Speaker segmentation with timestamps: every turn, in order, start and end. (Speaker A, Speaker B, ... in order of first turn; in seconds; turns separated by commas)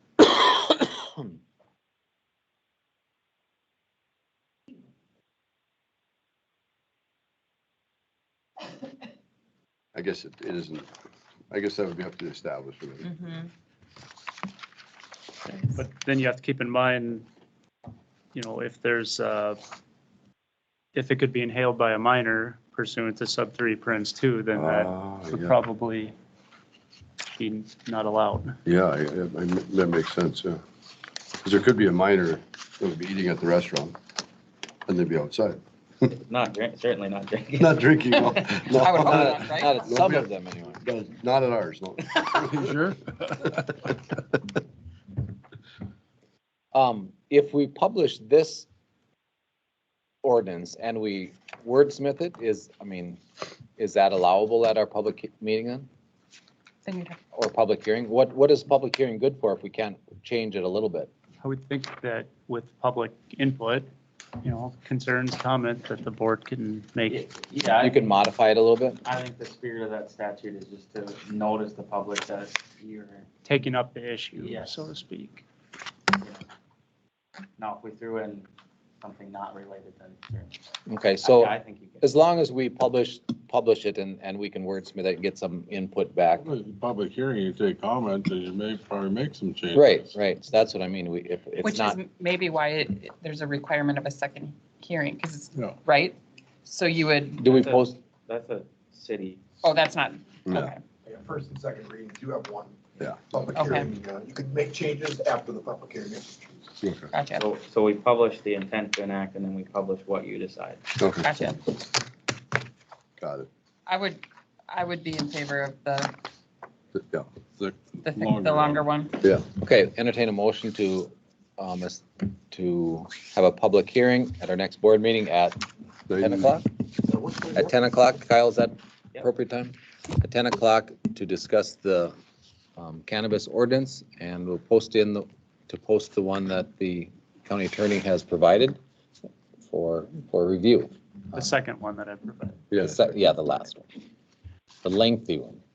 Speaker A: 0.2-1.2, Speaker B: 9.9-10.9, Speaker B: 11.5-13.1, Speaker C: 15.6-17.2, Speaker C: 18.3-19.6, Speaker C: 20.9-26.1, Speaker B: 24.5-25.6, Speaker C: 27.3-28.6, Speaker B: 28.6-30.6, Speaker B: 31.4-34.0, Speaker B: 34.9-36.1, Speaker D: 36.1-38.7, Speaker B: 37.5-42.9, Speaker E: 38.8-39.7, Speaker A: 39.0-40.8, Speaker F: 42.7-43.0, Speaker B: 43.7-44.1, Speaker A: 46.7-48.6, Speaker A: 50.2-53.2, Speaker A: 53.8-55.9, Speaker E: 56.8-57.2, Speaker A: 57.3-61.1, Speaker C: 61.4-63.9, Speaker C: 64.4-67.2, Speaker D: 67.1-68.1, Speaker A: 67.8-69.0, Speaker D: 69.0-73.3, Speaker C: 73.4-75.4, Speaker D: 74.3-74.8, Speaker D: 77.6-78.5, Speaker D: 79.0-80.6, Speaker A: 80.9-86.4, Speaker D: 81.2-82.1, Speaker F: 86.4-90.2, Speaker A: 89.7-92.0, Speaker E: 91.6-97.4, Speaker F: 95.5-95.8, Speaker A: 97.4-97.9, Speaker D: 97.4-99.4, Speaker E: 99.6-100.8, Speaker B: 100.5-100.7, Speaker G: 101.0-106.7, Speaker E: 103.5-103.9, Speaker B: 106.8-107.1, Speaker E: 107.1-107.4, Speaker D: 107.3-110.8, Speaker B: 111.0-111.2, Speaker E: 111.2-111.6, Speaker B: 113.2-113.5, Speaker E: 113.9-116.1, Speaker B: 116.9-117.3, Speaker F: 117.6-118.9, Speaker E: 118.0-119.1, Speaker B: 119.2-119.5, Speaker A: 119.5-125.6, Speaker B: 126.1-126.5, Speaker A: 126.2-126.7, Speaker A: 127.5-132.1, Speaker A: 132.8-138.8, Speaker A: 139.7-140.9, Speaker C: 141.3-142.6, Speaker B: 142.7-143.1, Speaker A: 142.8-143.8, Speaker A: 144.8-145.6